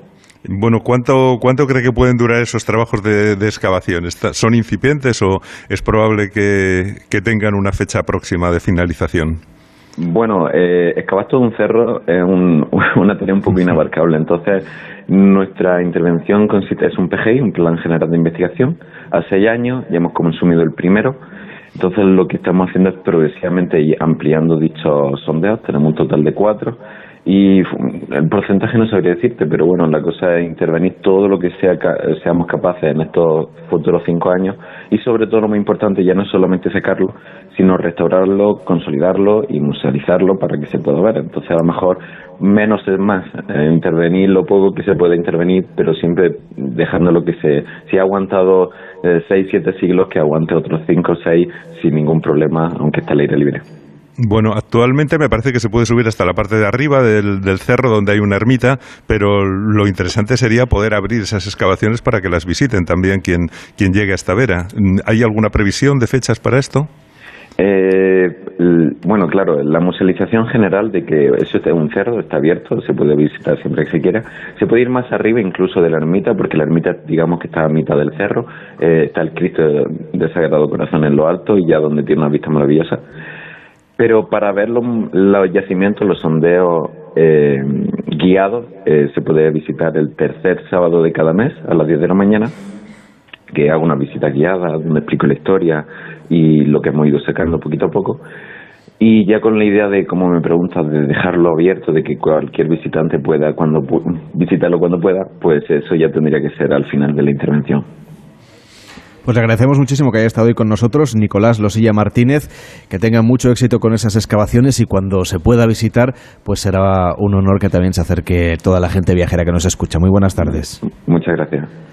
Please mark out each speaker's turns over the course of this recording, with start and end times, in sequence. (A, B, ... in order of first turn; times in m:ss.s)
0:00.5-0:09.4 A
0:10.0-0:21.2 B
0:21.8-0:53.6 B
0:54.2-1:06.9 A
1:07.6-1:23.0 B
1:24.0-1:32.5 B
1:33.5-1:38.2 B
1:39.0-1:47.9 B
1:49.2-2:00.8 C
2:00.8-2:01.7 B